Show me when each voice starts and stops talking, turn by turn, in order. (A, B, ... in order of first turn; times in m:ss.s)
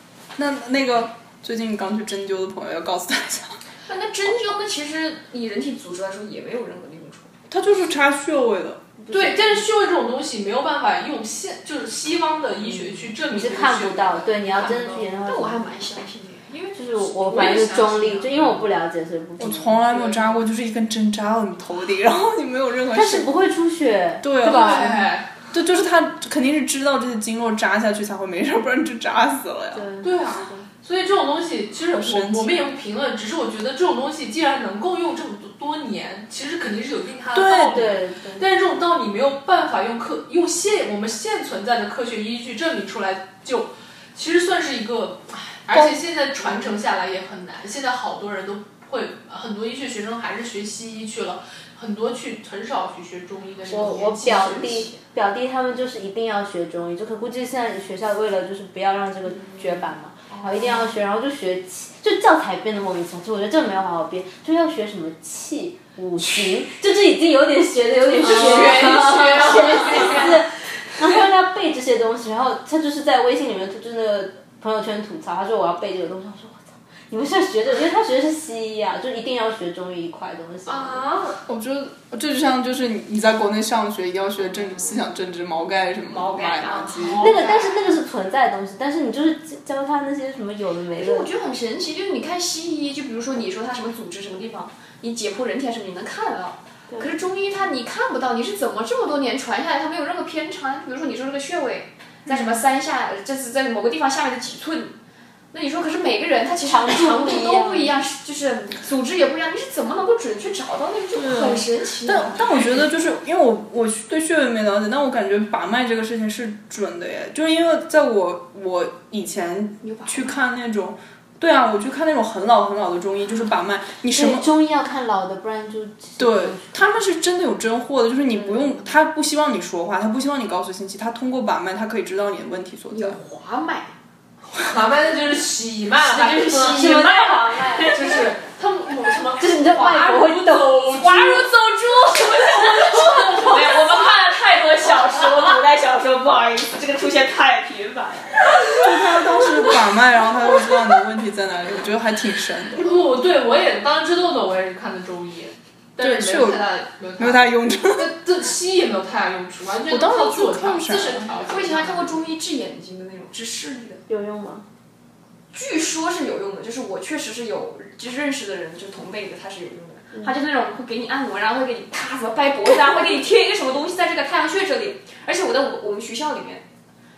0:00.4-0:03.6 A
0:03.9-0:07.3 B
0:07.5-0:08.8 A
0:09.0-0:09.6 C
0:09.1-0:15.1 D
0:12.7-0:15.8 C
0:15.2-0:16.8 B
0:16.8-0:20.0 C
0:17.0-0:18.7 D
0:19.4-0:23.3 A
0:22.9-0:25.0 C
0:24.2-0:29.9 A
0:24.4-0:25.3 D
0:29.7-0:30.7 C
0:30.0-0:54.9 D
0:31.9-0:32.7 A
0:37.3-0:37.9 A
0:37.5-0:38.5 C
0:53.7-1:21.1 C
0:53.7-0:55.0 B
1:00.4-1:00.7 B
1:08.2-1:10.4 D
1:08.7-1:10.2 B
1:20.7-1:21.4 B
1:21.5-1:27.3 A
1:26.1-1:27.8 B
1:26.9-1:27.6 D
1:27.2-1:31.3 C
1:31.0-1:45.0 B
1:42.3-1:42.6 A
1:45.5-1:52.9 B
1:46.6-1:48.0 C
1:51.2-2:04.5 A
1:59.8-2:00.3 B
2:04.1-2:06.7 C
2:06.2-2:13.2 A
2:08.5-2:08.8 C
2:12.9-2:13.9 B
2:14.6-2:17.1 D
2:16.0-2:18.4 B
2:16.5-2:18.0 C
2:17.9-2:24.1 D
2:19.4-2:20.8 C
2:20.9-2:28.8 B
2:28.6-2:33.0 A
2:32.8-2:42.3 D
2:36.0-2:36.7 A
2:37.2-2:38.1 A
2:39.9-2:41.3 A
2:41.5-2:44.0 B
2:44.1-2:44.6 C
2:45.5-2:56.6 B